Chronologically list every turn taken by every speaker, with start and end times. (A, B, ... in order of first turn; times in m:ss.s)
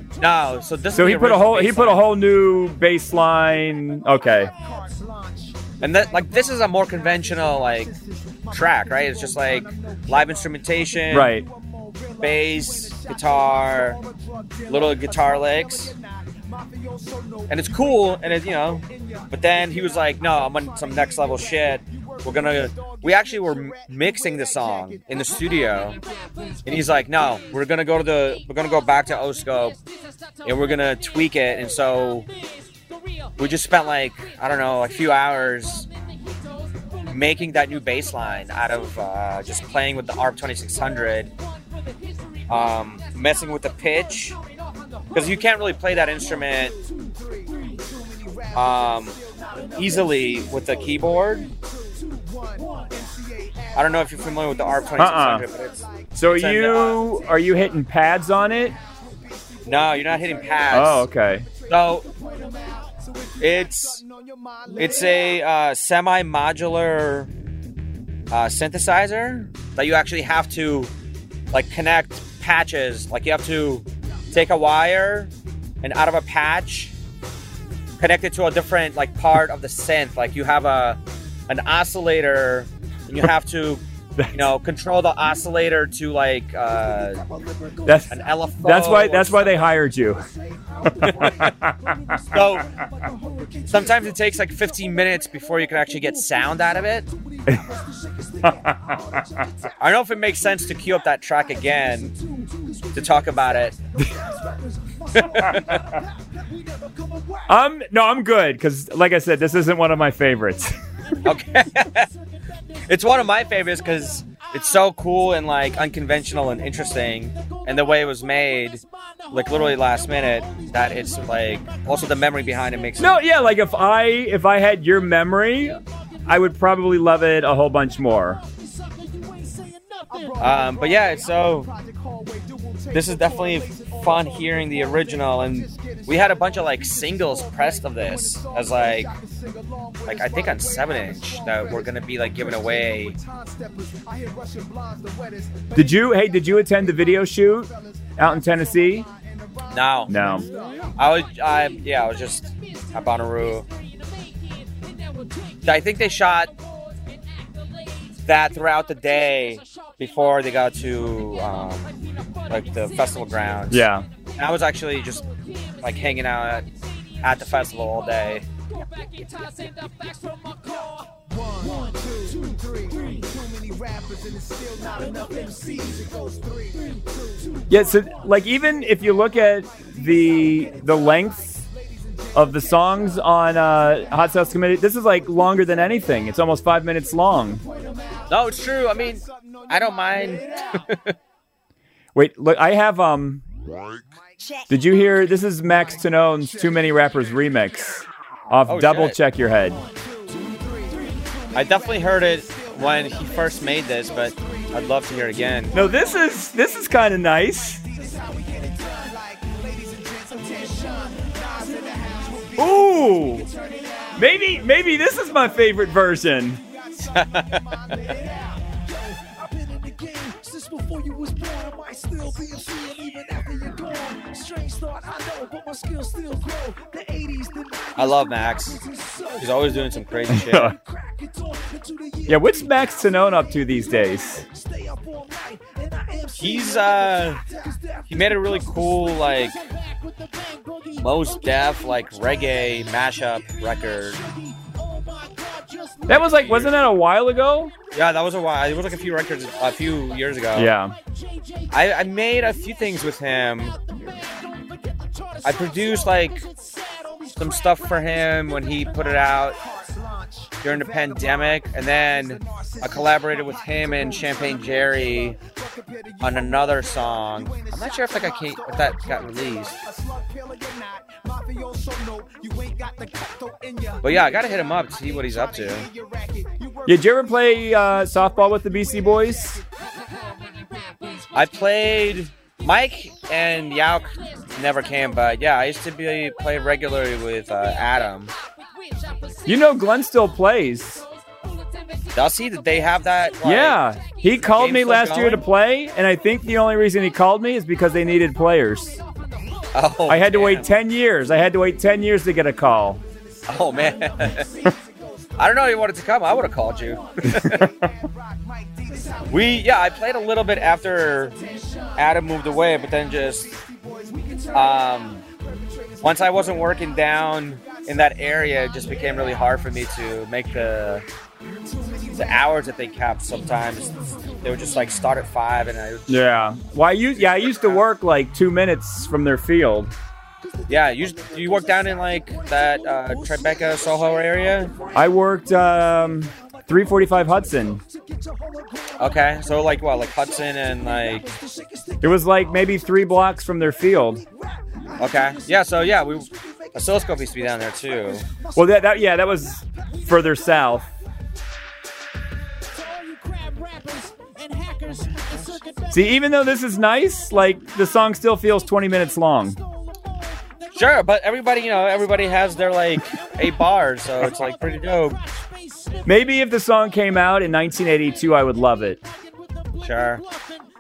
0:00.2-0:02.0 A
0:00.9-0:04.5 B
0:04.4-0:05.4 C
0:05.8-0:07.9 A
0:08.5-0:11.3 A
0:11.1-0:11.5 B
0:12.2-0:14.0 A
0:14.0-0:14.6 C
0:14.7-0:15.9 A
0:15.9-0:17.4 C
0:17.5-0:26.0 A
0:26.6-0:29.8 A
0:30.4-0:32.3 A
0:33.4-0:35.9 A
0:37.0-0:41.3 A
0:42.5-0:44.4 A
0:45.1-0:46.8 A
0:47.2-0:48.5 C
0:48.5-0:49.2 A
0:49.8-0:51.5 A
0:51.9-0:54.1 C
0:53.7-0:57.0 A
0:54.6-0:55.4 C
0:55.0-0:55.5 B
0:56.1-0:58.8 B
0:59.2-1:00.9 C
0:59.6-1:01.1 A
1:00.7-1:01.5 B
1:01.6-1:03.3 C
1:01.7-1:02.0 A
1:03.4-1:04.0 A
1:04.7-1:07.3 A
1:08.3-1:10.9 A
1:11.5-1:16.9 A
1:18.0-1:27.2 A
1:27.2-1:28.0 C
1:27.8-1:30.2 B
1:28.1-1:29.6 A
1:30.3-1:34.1 C
1:31.0-1:31.9 B
1:31.0-1:31.6 A
1:32.2-1:32.7 A
1:33.7-1:37.1 A
1:37.1-1:39.7 C
1:38.4-1:39.0 B
1:39.8-1:42.1 A
1:42.1-1:43.0 C
1:42.9-1:43.8 A
1:44.1-1:47.5 C
1:45.1-1:45.9 A
1:47.5-1:50.8 B
1:51.2-1:52.1 A
1:52.9-2:03.2 A
2:03.0-2:08.4 B
2:09.1-2:10.4 C
2:10.4-2:11.7 A
2:11.9-2:12.9 C
2:12.9-2:19.1 A
2:19.1-2:20.0 C
2:20.0-2:23.2 A
2:20.8-2:21.9 C
2:23.1-2:25.8 C
2:25.7-2:29.1 B
2:28.9-2:29.4 C
2:29.7-2:30.1 A
2:30.1-2:30.4 B
2:30.1-2:30.8 C
2:31.0-2:33.6 A
2:35.6-2:36.5 A
2:38.2-2:45.2 A
2:43.7-2:44.1 B
2:45.8-2:46.6 A
2:47.2-2:48.4 A
2:49.0-2:58.1 C
2:57.7-3:01.6 B
3:02.3-3:07.6 B
3:07.6-3:09.6 C
3:08.3-3:11.1 A
3:10.2-3:10.6 C
3:12.1-3:13.4 B
3:14.7-3:19.8 B
3:18.6-3:19.2 A
3:19.8-3:21.5 C
3:21.5-3:25.8 A
3:25.7-3:26.0 C
3:25.7-3:27.8 B
3:27.8-3:34.8 C
3:32.6-3:33.5 B
3:34.2-3:36.6 B
3:36.6-4:00.9 C
3:37.1-3:37.6 A
3:48.0-3:48.8 A
3:49.4-3:50.7 A
3:50.3-3:50.7 B
3:52.3-3:54.4 B
3:56.4-3:57.4 A
3:58.1-3:59.5 A
4:00.9-4:04.2 A
4:04.1-4:06.5 C
4:06.1-4:07.7 B
4:06.2-4:06.7 A
4:07.9-4:10.7 A
4:10.5-4:11.0 B
4:11.7-4:13.7 A
4:15.4-4:16.4 A
4:15.7-4:16.3 C
4:17.3-4:19.6 A
4:19.6-4:21.4 C
4:20.6-4:25.4 A
4:22.4-4:26.2 C
4:26.2-4:29.8 A
4:29.3-4:34.7 C
4:34.0-4:35.9 A
4:35.8-4:36.9 C
4:36.8-4:39.6 B
4:38.7-4:41.3 C
4:41.3-4:48.3 A
4:49.4-4:51.0 B
4:52.1-4:53.8 A
4:53.4-4:59.0 B
4:54.4-4:55.4 A
4:59.7-5:00.7 A
5:00.1-5:03.0 B
5:03.5-5:04.5 A
5:04.1-5:05.0 C
5:05.4-5:07.7 A
5:07.3-5:07.7 B
5:07.6-5:09.2 C
5:09.3-5:11.4 A
5:11.4-5:11.9 C
5:12.0-5:13.5 A
5:13.5-5:14.5 C
5:14.5-5:15.2 A
5:16.0-5:21.0 A
5:21.7-5:22.5 C
5:22.2-5:26.3 A
5:26.1-5:29.9 B
5:27.1-5:27.8 A
5:30.4-5:38.9 C
5:30.7-5:34.8 A
5:34.9-5:37.8 B
5:39.0-5:41.3 A
5:41.0-5:42.7 C
5:42.0-5:44.2 B
5:44.8-5:46.5 C
5:45.0-5:48.2 A
5:48.2-5:48.7 C
5:48.5-5:50.9 B
5:52.8-5:55.9 C
5:55.0-5:55.6 A
5:55.9-5:59.6 B
6:00.7-6:05.2 A
6:05.7-6:06.0 C
6:06.0-6:09.0 B
6:09.8-6:10.2 A